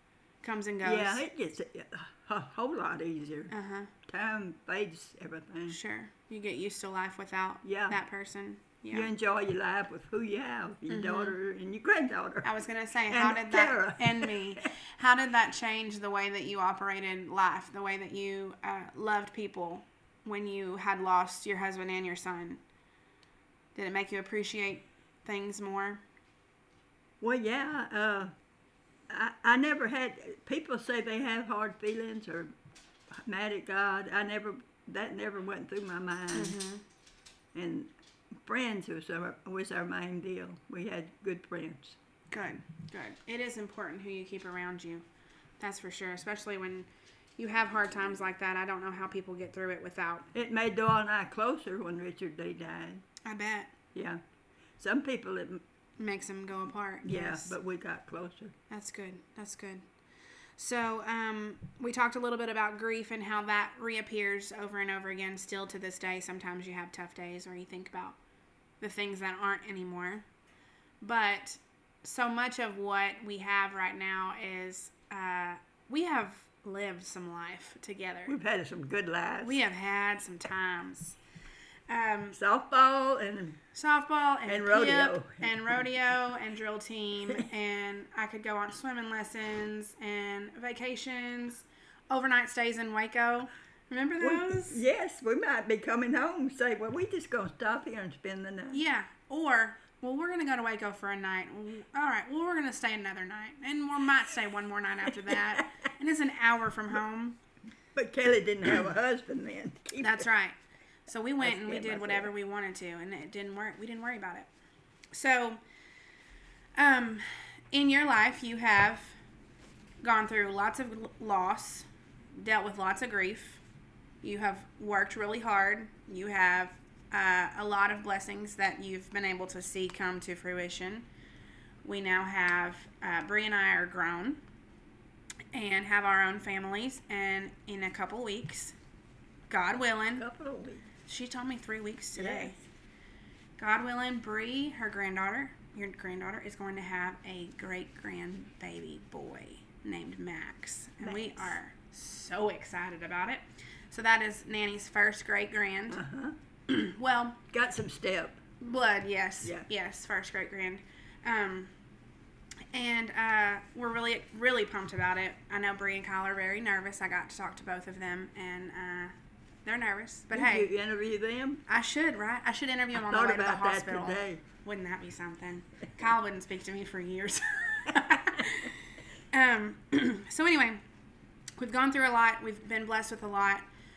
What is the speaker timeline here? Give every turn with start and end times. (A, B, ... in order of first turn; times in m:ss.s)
0:00.4-0:01.2 A
0:00.8-0:03.5 B
0:03.5-0:03.9 A
0:04.0-0:05.8 B
0:05.7-0:09.1 A
0:07.6-0:08.0 B
0:08.9-0:12.5 B
0:10.9-0:11.3 A
0:12.4-0:22.6 A
0:13.1-0:14.6 B
0:23.7-0:26.0 A
0:27.2-0:28.3 B
0:29.1-0:32.5 B
0:33.1-0:36.6 B
0:36.3-0:36.8 A
0:37.5-0:42.0 B
0:42.3-0:45.0 A
0:45.6-0:50.3 A
0:50.3-0:53.0 B
0:53.2-0:53.7 A
0:53.9-0:54.2 B
0:54.8-0:55.6 B
0:56.0-0:57.5 A
0:57.0-0:58.5 B
0:58.7-0:59.8 A
1:00.6-1:08.2 A
1:08.8-1:10.2 A
1:11.0-1:18.3 A
1:18.2-1:19.6 B
1:19.4-1:21.2 A
1:21.9-1:22.4 A
1:22.3-1:23.6 B
1:23.7-1:34.8 A
1:24.4-1:25.8 B
1:34.2-1:38.8 B
1:38.7-1:47.4 A
1:45.1-1:45.7 B
1:47.9-1:50.3 B
1:50.0-1:54.5 A
1:51.4-1:52.3 B
1:55.1-1:55.6 A
1:56.8-1:59.2 A
2:00.0-2:03.6 A
2:04.2-2:11.0 A
2:11.8-2:14.4 A
2:15.5-2:18.7 A
2:19.5-2:20.2 A
2:20.2-2:20.8 B
2:21.1-2:22.6 A
2:22.1-2:22.6 B
2:23.6-2:36.0 A
2:31.0-2:31.5 B
2:35.9-2:36.4 B
2:36.7-2:37.4 A
2:37.5-2:38.4 B
2:38.6-2:41.7 A
2:42.7-2:49.1 A
2:49.6-2:50.7 A
2:50.3-2:51.6 B
2:51.7-2:58.8 A
2:52.9-2:54.4 B
2:59.3-3:00.8 A
3:01.6-3:03.6 A